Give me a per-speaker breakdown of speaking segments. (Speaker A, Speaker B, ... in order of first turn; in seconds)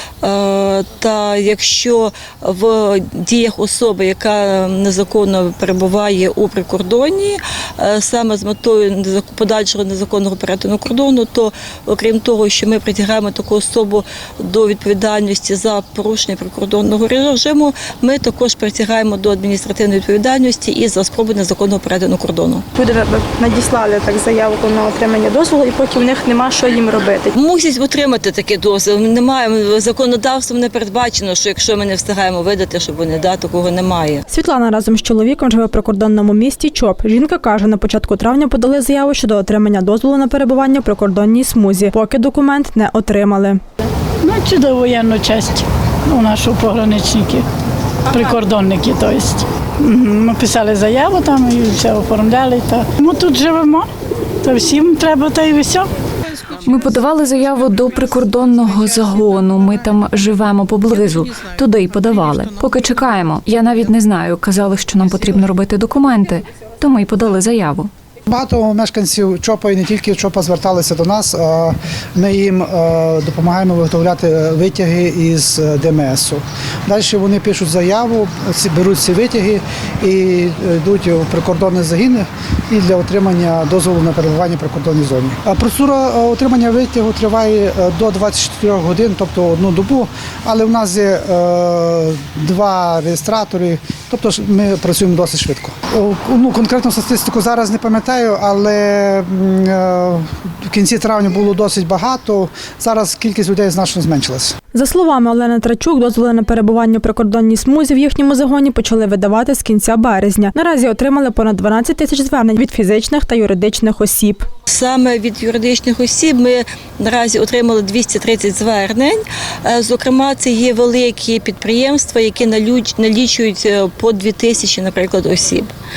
Speaker A: 0.2-22.6, 27.3-34.2, 114.7-125.7
Speaker B: 22.7-27.3
Speaker C: 34.3-43.6, 104.7-114.5
Speaker D: 44.2-47.4, 48.1-53.9, 54.4-55.9
Speaker E: 56.5-67.9
Speaker F: 68.3-104.5